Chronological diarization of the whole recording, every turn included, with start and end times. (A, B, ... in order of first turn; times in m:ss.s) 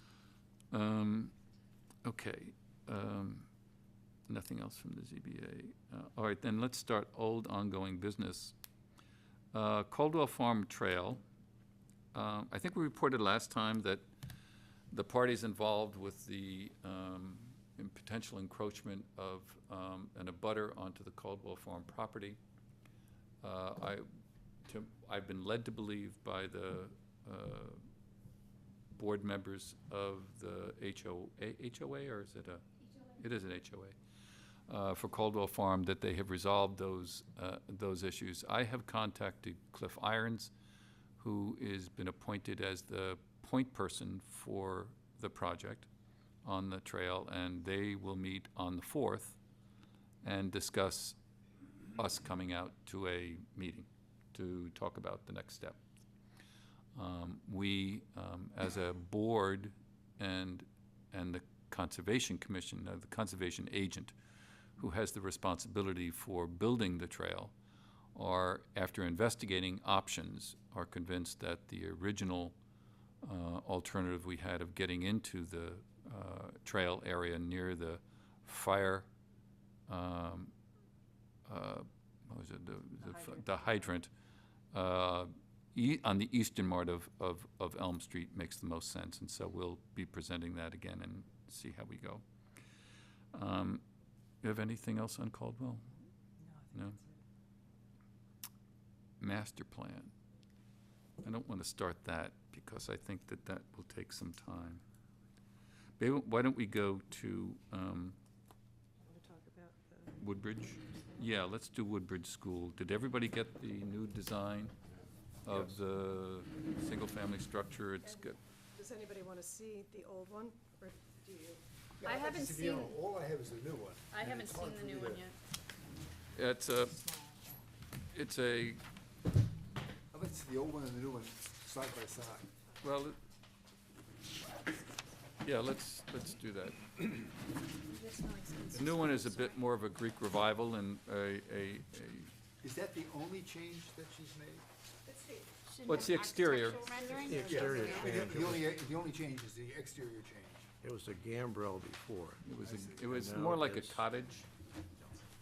0:00.7-0:01.3 A
0:02.0-0:03.5 A
0:04.3-0:08.5 A
0:09.5-0:11.2 A
0:12.1-0:14.0 A
0:14.9-0:22.4 A
0:23.4-0:24.0 A
0:24.7-0:27.8 A
0:29.0-0:34.0 A
0:34.7-0:40.5 A
0:41.2-0:45.9 A
0:46.4-0:49.4 A
0:50.2-0:51.2 A
0:52.0-0:55.8 A
0:57.0-1:04.1 A
1:04.8-1:07.5 A
1:08.2-1:12.6 A
1:13.2-1:19.1 A
1:19.9-1:20.5 A
1:21.5-1:24.1 A
1:23.0-1:23.7 B
1:24.7-1:32.2 A
1:33.3-1:33.8 A
1:34.4-1:35.9 A
1:36.5-1:37.2 B
1:39.2-1:40.1 A
1:41.2-1:44.8 A
1:46.0-1:48.2 A
1:49.0-1:50.2 B
1:50.2-1:54.7 A
1:50.8-1:51.3 B
1:55.4-1:58.4 A
1:55.5-1:55.8 C
1:58.0-2:01.6 B
2:02.0-2:05.3 C
2:02.0-2:03.0 D
2:04.1-2:05.4 D
2:06.4-2:07.0 A
2:08.1-2:08.8 A
2:10.1-2:12.5 C
2:12.8-2:13.2 A
2:15.4-2:17.2 A
2:17.8-2:19.6 D
2:18.7-2:22.3 A
2:22.6-2:24.7 C
2:25.1-2:28.2 B
2:25.7-2:28.2 D
2:25.8-2:26.9 A
2:27.2-2:28.7 E
2:27.4-2:30.7 C
2:30.8-2:32.4 E
2:32.4-2:34.5 A
2:32.6-2:33.2 C
2:33.1-2:34.0 E